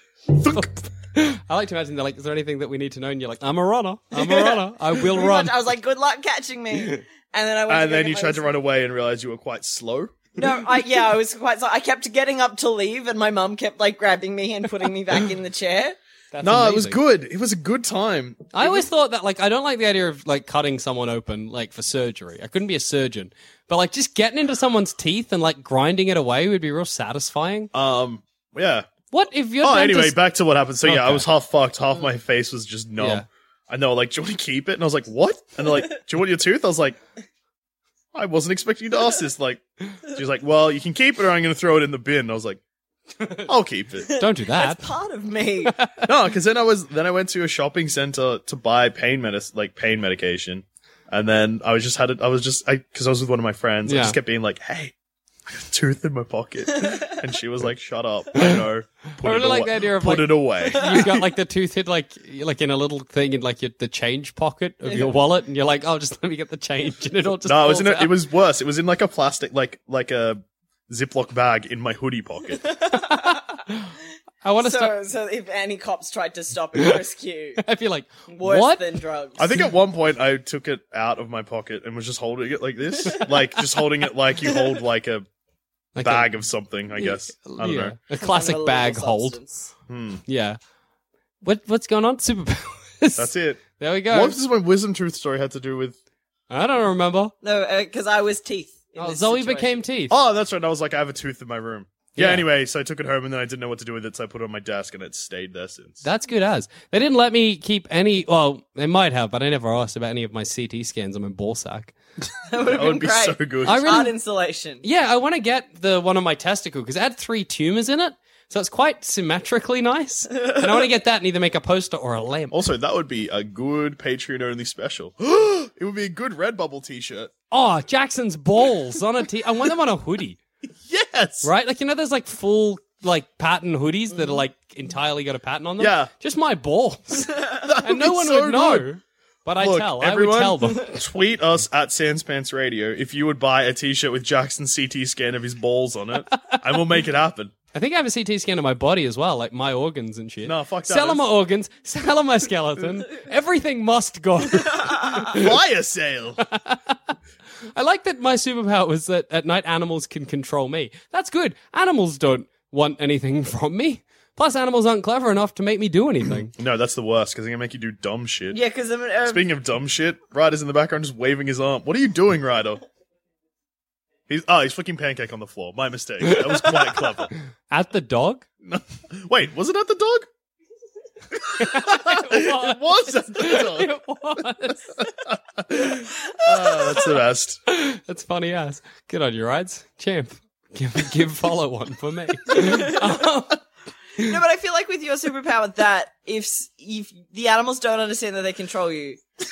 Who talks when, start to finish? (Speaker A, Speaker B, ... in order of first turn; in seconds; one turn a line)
Speaker A: 0.4-0.7
Speaker B: 0.4-5.6
Speaker C: 4.1-8.5
Speaker A: 7.7-10.2
Speaker C: 10.4-16.0
Speaker B: 16.3-17.0
Speaker A: 16.4-18.8
Speaker B: 18.5-27.7
Speaker A: 27.7-28.9
Speaker B: 29.1-30.2
Speaker A: 29.6-37.0
Speaker B: 30.8-31.3
Speaker B: 33.0-33.2
Speaker A: 38.1-42.6
Speaker B: 43.2-43.5
Speaker A: 43.5-44.1
Speaker C: 44.1-45.7
Speaker B: 44.1-44.9
Speaker B: 45.7-46.0
Speaker A: 46.0-54.9
Speaker B: 53.9-54.2
Speaker A: 55.5-61.2
Speaker B: 59.2-68.2
Speaker C: 64.9-65.1
Speaker A: 67.5-72.7
Speaker C: 72.7-73.6
Speaker B: 73.1-73.9
Speaker B: 74.4-75.0
Speaker C: 74.6-77.6
Speaker B: 77.6-79.0
Speaker C: 78.3-79.5
Speaker A: 79.4-85.3
Speaker B: 86.0-86.3
Speaker A: 86.0-88.0
Speaker B: 87.0-89.4
Speaker C: 88.2-89.7
Speaker A: 89.9-90.2
Speaker B: 90.3-90.6
Speaker B: 91.4-94.4
Speaker A: 93.2-96.0
Speaker B: 96.5-97.3
Speaker C: 97.4-99.8
Speaker B: 99.0-100.2
Speaker A: 100.1-106.0
Speaker B: 102.2-102.5
Speaker B: 106.0-112.0
Speaker C: 112.5-114.8
Speaker A: 112.6-114.0
Speaker B: 113.6-114.1
Speaker B: 114.8-122.6
Speaker A: 122.5-127.3
Speaker B: 127.5-130.4
Speaker A: 130.9-131.5
Speaker B: 131.4-140.9
Speaker A: 135.8-136.1
Speaker A: 137.5-138.9
Speaker A: 139.6-147.5
Speaker B: 147.7-155.5
Speaker A: 150.4-151.2
Speaker A: 155.3-156.4
Speaker B: 156.5-157.1
Speaker B: 157.7-166.5
Speaker A: 166.3-168.6
Speaker C: 168.5-169.4
Speaker A: 169.2-172.8
Speaker A: 174.3-177.3
Speaker B: 176.3-177.1
Speaker B: 177.7-178.4
Speaker A: 178.7-180.3
Speaker A: 181.4-183.9
Speaker B: 181.6-184.9
Speaker A: 185.0-187.6
Speaker B: 187.7-193.6
Speaker C: 192.5-193.2
Speaker C: 194.2-199.2